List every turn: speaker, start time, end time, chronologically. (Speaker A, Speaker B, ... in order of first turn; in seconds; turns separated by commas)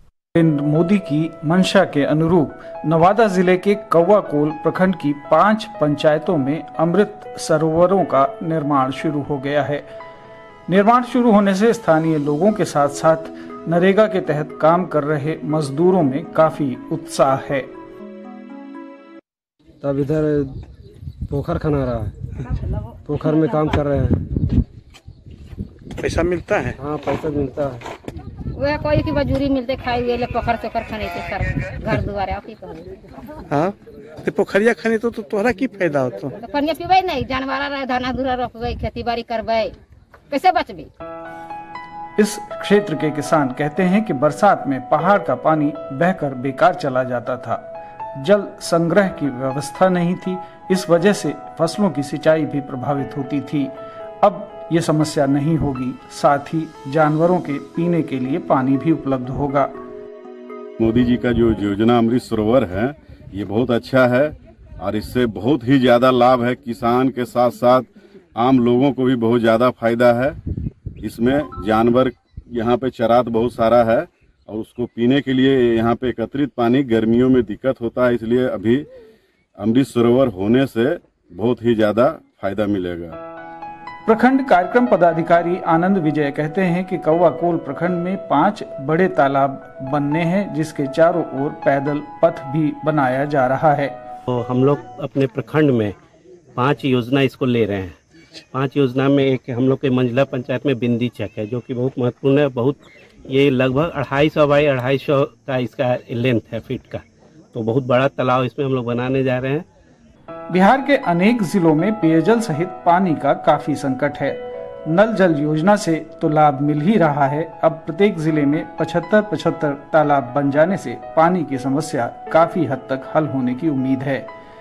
Speaker A: 0.4-9.9, Speaker A: 10.7-17.7, Speaker B: 19.8-20.6, Speaker B: 21.3-22.1, Speaker B: 23.1-24.3, Speaker C: 26.0-26.8, Speaker B: 26.8-27.9, Speaker D: 28.6-32.9, Speaker C: 33.5-36.4, Speaker D: 36.4-39.7, Speaker D: 40.3-40.9, Speaker A: 42.2-47.6, Speaker A: 48.2-59.7, Speaker E: 60.8-70.4, Speaker E: 71.0-78.8, Speaker E: 79.6-83.2, Speaker A: 84.1-93.9, Speaker F: 94.3-96.0, Speaker F: 96.6-98.0, Speaker F: 98.5-107.0, Speaker F: 107.5-109.7, Speaker A: 110.5-124.3